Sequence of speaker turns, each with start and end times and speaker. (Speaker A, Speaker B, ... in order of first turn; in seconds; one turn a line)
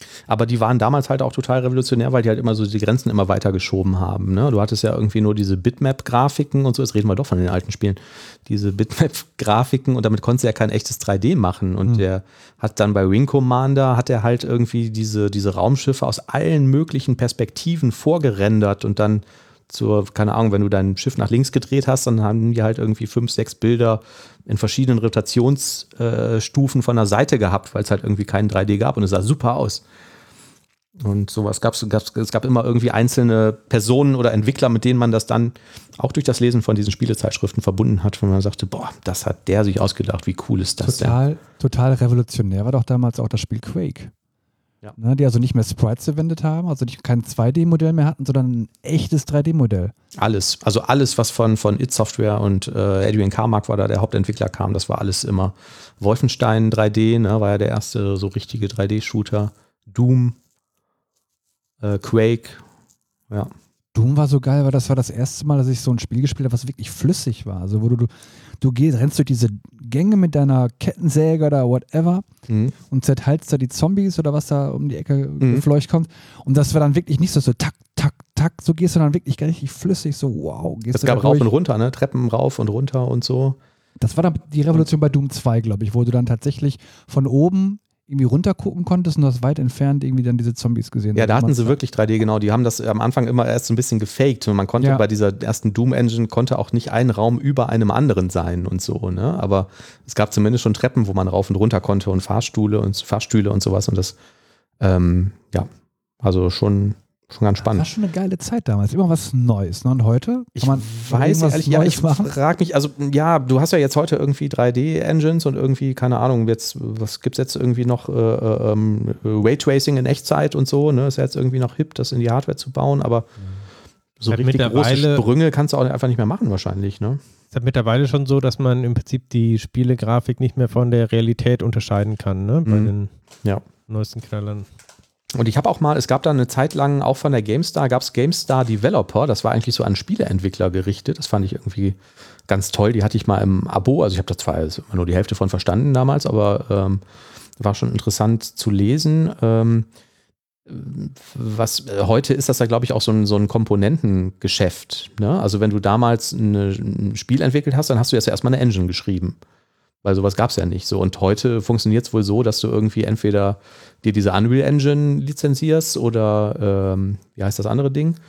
Speaker A: 0.3-29.8
Speaker A: 31.0-41.2
Speaker B: 40.8-44.1
Speaker B: 45.0-49.9
Speaker A: 50.2-60.4
Speaker A: 61.8-62.6
Speaker B: 64.0-72.3
Speaker A: 72.5-72.8
Speaker B: 72.9-81.5
Speaker A: 75.4-75.7
Speaker A: 80.9-83.6
Speaker B: 84.0-91.8
Speaker A: 91.1-104.2
Speaker B: 94.8-95.0
Speaker A: 104.8-105.7
Speaker A: 106.2-107.9
Speaker B: 107.6-112.4
Speaker A: 110.6-123.3
Speaker A: 124.2-127.2
Speaker C: 124.3-125.3
Speaker C: 127.5-133.1
Speaker A: 132.7-132.9
Speaker C: 133.9-134.7
Speaker A: 135.3-147.0
Speaker A: 147.6-149.9
Speaker A: 150.7-159.4
Speaker A: 160.0-168.2